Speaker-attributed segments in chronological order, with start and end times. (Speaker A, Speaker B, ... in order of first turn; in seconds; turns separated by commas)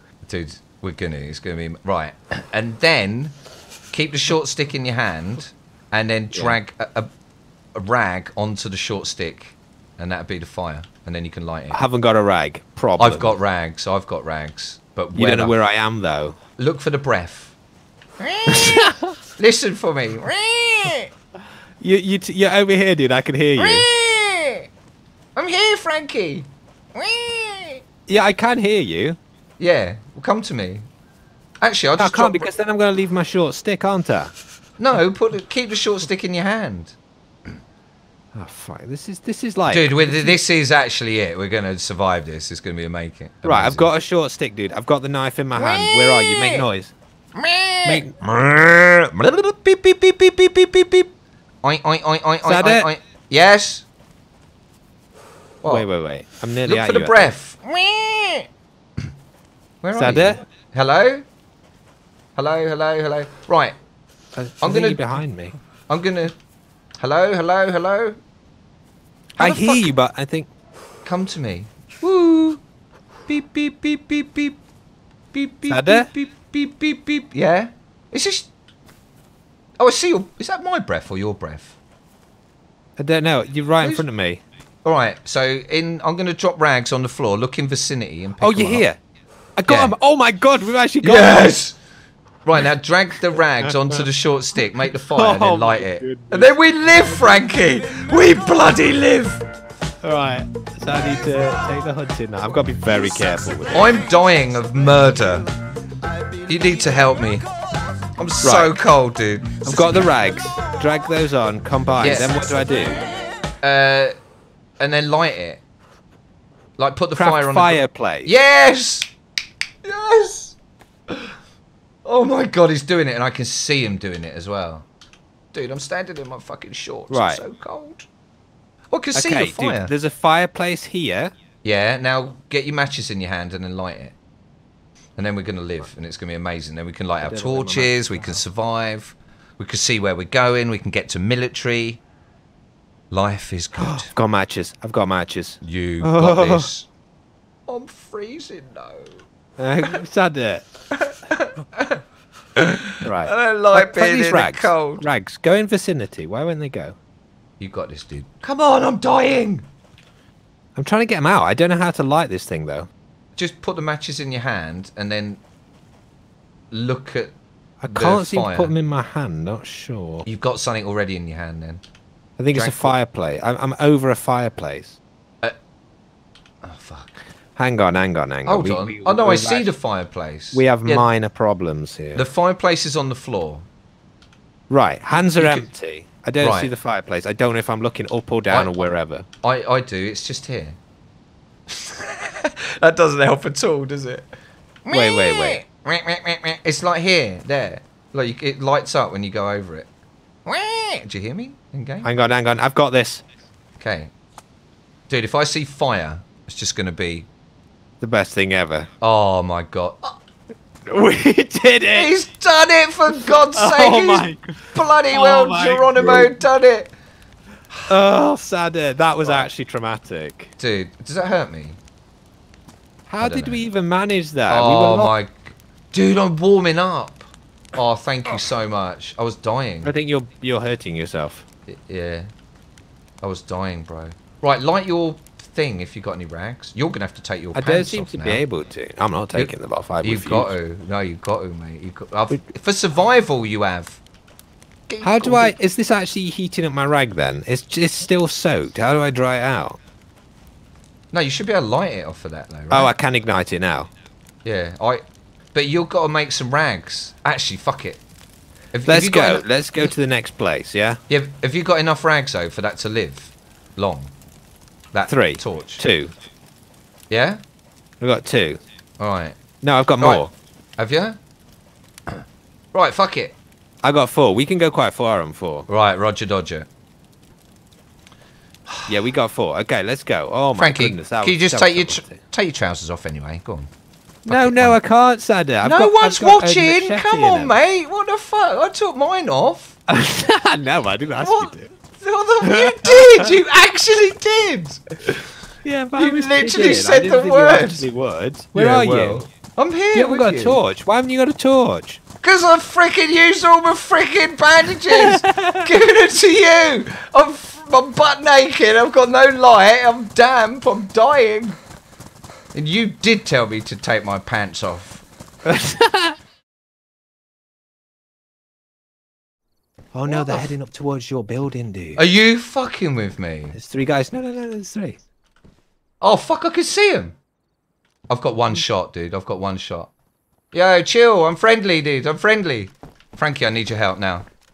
Speaker A: 0.2-3.3, Speaker A: 3.9-7.1, Speaker B: 6.3-6.6, Speaker A: 7.7-11.8, Speaker B: 11.7-13.4, Speaker A: 13.0-15.6, Speaker B: 15.2-16.4, Speaker A: 16.6-17.6, Speaker A: 18.2-18.8, Speaker B: 18.5-19.1, Speaker A: 19.4-21.1, Speaker B: 21.8-23.9, Speaker A: 23.6-24.7, Speaker A: 25.4-27.8, Speaker B: 28.1-29.2, Speaker A: 29.6-30.9, Speaker A: 31.6-32.5, Speaker B: 32.0-34.3, Speaker A: 34.8-37.0, Speaker B: 38.3-40.4, Speaker A: 39.7-43.9, Speaker B: 43.4-46.9, Speaker A: 45.6-46.6, Speaker A: 47.4-53.9, Speaker B: 47.9-48.2, Speaker B: 52.4-52.9, Speaker B: 55.6-57.3, Speaker A: 56.7-58.5, Speaker A: 59.8-61.2, Speaker B: 59.9-60.4, Speaker A: 62.4-63.8, Speaker B: 64.4-65.5, Speaker A: 64.6-65.2, Speaker A: 65.9-66.3, Speaker A: 67.0-68.2, Speaker A: 69.4-69.9, Speaker B: 69.4-70.5, Speaker A: 71.0-72.6, Speaker A: 73.3-74.6, Speaker A: 75.3-78.5, Speaker B: 75.7-76.1, Speaker A: 79.8-81.8, Speaker B: 83.0-84.4, Speaker A: 84.8-88.9, Speaker B: 88.4-89.0, Speaker B: 89.6-91.6, Speaker A: 89.7-89.9, Speaker A: 91.0-91.8, Speaker A: 92.5-99.4, Speaker B: 93.7-94.0, Speaker B: 95.1-96.5, Speaker B: 100.0-104.0, Speaker A: 103.7-105.5, Speaker A: 106.5-107.5, Speaker A: 108.2-110.0, Speaker B: 108.4-108.7, Speaker B: 109.6-113.0, Speaker A: 112.0-112.6, Speaker A: 113.6-114.1, Speaker A: 114.8-115.6, Speaker A: 116.8-119.1, Speaker B: 117.2-118.3, Speaker A: 119.8-120.6, Speaker A: 122.0-124.9, Speaker A: 125.5-128.1, Speaker B: 127.1-127.4, Speaker A: 128.9-129.9, Speaker B: 129.1-131.3, Speaker A: 131.6-134.2, Speaker A: 135.2-142.0, Speaker B: 137.2-138.4, Speaker A: 143.1-144.1, Speaker B: 143.8-146.7, Speaker A: 145.6-146.9, Speaker A: 147.7-149.2, Speaker B: 149.6-150.7, Speaker A: 150.9-152.0, Speaker A: 152.6-155.1, Speaker B: 153.0-157.0, Speaker A: 157.6-159.7, Speaker B: 160.8-162.9, Speaker A: 163.4-165.4, Speaker A: 166.7-167.3, Speaker B: 167.8-170.3, Speaker A: 167.9-168.7, Speaker A: 170.3-171.8, Speaker B: 172.4-175.0, Speaker A: 172.5-173.0, Speaker A: 176.6-177.3, Speaker B: 177.6-179.7, Speaker A: 178.4-181.1, Speaker B: 180.5-182.3, Speaker A: 182.2-183.7, Speaker B: 184.7-189.3, Speaker A: 185.4-185.7, Speaker A: 186.4-186.7, Speaker A: 188.5-188.9, Speaker A: 189.4-190.8, Speaker A: 191.7-194.3, Speaker A: 194.8-199.9, Speaker B: 194.9-195.6, Speaker A: 200.5-202.1, Speaker B: 202.0-203.2, Speaker A: 203.8-204.1, Speaker A: 205.1-207.3, Speaker B: 208.0-208.9, Speaker A: 209.0-210.2, Speaker B: 210.9-212.1, Speaker A: 211.9-216.9, Speaker B: 213.2-216.5, Speaker B: 217.9-220.5, Speaker A: 219.2-219.5, Speaker A: 220.6-221.8, Speaker B: 223.1-225.1, Speaker A: 223.2-223.6, Speaker A: 224.5-229.9, Speaker B: 229.8-231.4, Speaker A: 231.7-232.3, Speaker A: 233.2-238.4, Speaker B: 237.5-240.5, Speaker A: 239.3-244.0, Speaker A: 244.9-245.5, Speaker B: 245.0-249.8, Speaker A: 251.1-252.9, Speaker B: 252.7-253.9, Speaker A: 254.4-255.0, Speaker A: 255.5-258.0, Speaker A: 258.7-259.5, Speaker B: 258.9-261.0, Speaker A: 261.1-264.1, Speaker A: 264.9-265.8, Speaker B: 265.1-266.1, Speaker A: 267.1-267.4, Speaker B: 268.0-268.6, Speaker A: 269.0-269.4, Speaker B: 269.6-270.3, Speaker A: 270.8-271.2, Speaker A: 272.1-273.4, Speaker B: 273.8-275.7, Speaker A: 275.7-276.7, Speaker A: 278.7-278.9, Speaker B: 278.9-282.2, Speaker A: 280.6-283.7, Speaker A: 284.3-284.8, Speaker B: 284.3-287.6, Speaker A: 285.6-289.8, Speaker B: 289.9-291.7, Speaker A: 291.2-295.3, Speaker B: 292.4-293.3, Speaker B: 295.6-299.3, Speaker A: 296.0-297.9, Speaker A: 298.5-300.6, Speaker B: 299.9-302.0, Speaker A: 302.2-311.6, Speaker B: 304.9-305.7, Speaker A: 312.5-315.0, Speaker B: 315.4-316.2, Speaker B: 319.9-322.0, Speaker A: 320.1-320.5, Speaker A: 322.0-323.6, Speaker B: 323.5-325.0, Speaker A: 326.0-327.2, Speaker A: 328.1-329.9, Speaker A: 330.5-334.3